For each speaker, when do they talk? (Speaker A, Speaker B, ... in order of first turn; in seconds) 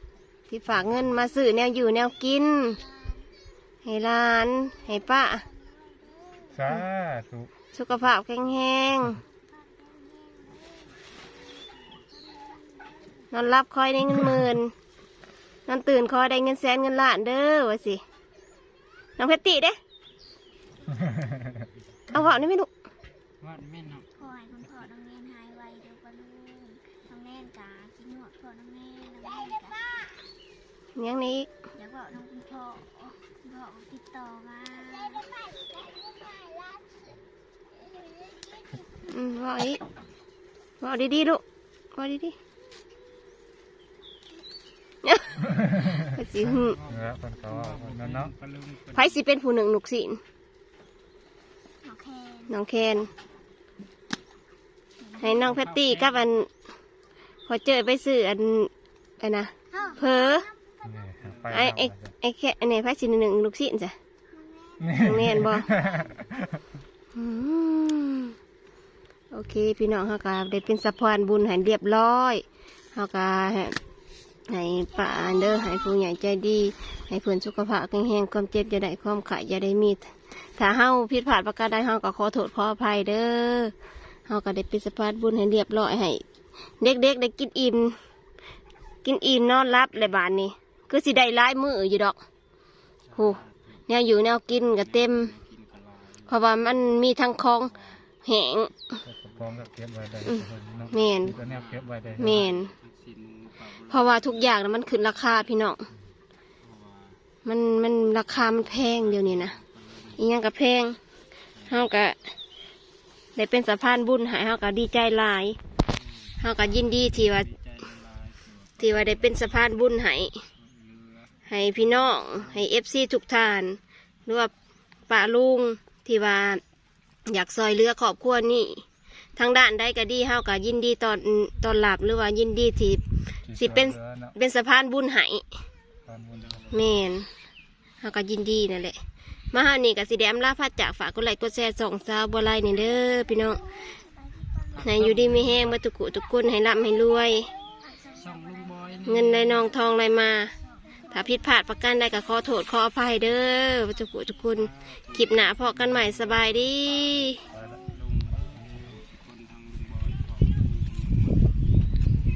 Speaker A: 0.5-2.8, 3.9-5.5, 7.7-9.2, 13.3-14.7, 15.7-18.0, 19.2-19.8, 22.1-22.7, 31.0-31.5, 39.1-39.8, 40.8-41.4, 42.0-42.4, 45.0-45.4, 46.0-46.8, 48.9-50.2, 52.5-53.1, 55.2-56.5, 57.5-60.5, 61.5-64.0, 65.0-65.7, 67.2-68.3, 69.3-72.4, 73.0-73.8, 74.5-80.0, 80.6-83.7, 84.3-86.2, 86.8-88.0, 89.0-92.2, 93.2-95.3, 96.3-98.7, 100.2-101.4, 102.2-102.7, 103.9-105.8, 107.5-109.5, 110.2-111.0, 111.7-112.2, 113.4-115.6, 116.4-117.5, 118.8-120.4, 121.5-124.5, 125.1-126.6, 127.3-128.8, 129.4-133.0, 133.6-135.4, 136.7-137.3, 138.0-139.0, 139.5-143.6, 144.8-147.5, 149.1-150.5, 151.1-157.4
Speaker B: 2.8-3.3, 5.4-6.5, 9.3-13.3, 24.1-30.0, 31.8-35.5, 36.3-36.8, 51.8-52.5, 59.7-60.5, 64.3-64.8, 75.1-75.8, 143.7-145.0, 147.5-148.6, 149.7-151.5
Speaker C: 6.5-7.5, 45.4-46.1, 46.8-48.3, 60.8-62.1, 64.8-66.6, 99.0-102.5, 133.5-134.4, 136.1-137.0, 157.5-157.8, 158.6-159.0
Speaker D: 23.4-24.1, 46.4-49.2, 55.4-56.3, 61.2-61.6, 93.1-93.9, 94.5-96.6, 97.7-98.0, 101.2-105.3, 106.6-107.2, 108.3-110.2, 111.5-111.9, 115.9-119.8, 120.5-122.7, 136.3-137.1, 144.7-145.8, 148.1-149.7, 154.4-157.3, 157.9-161.8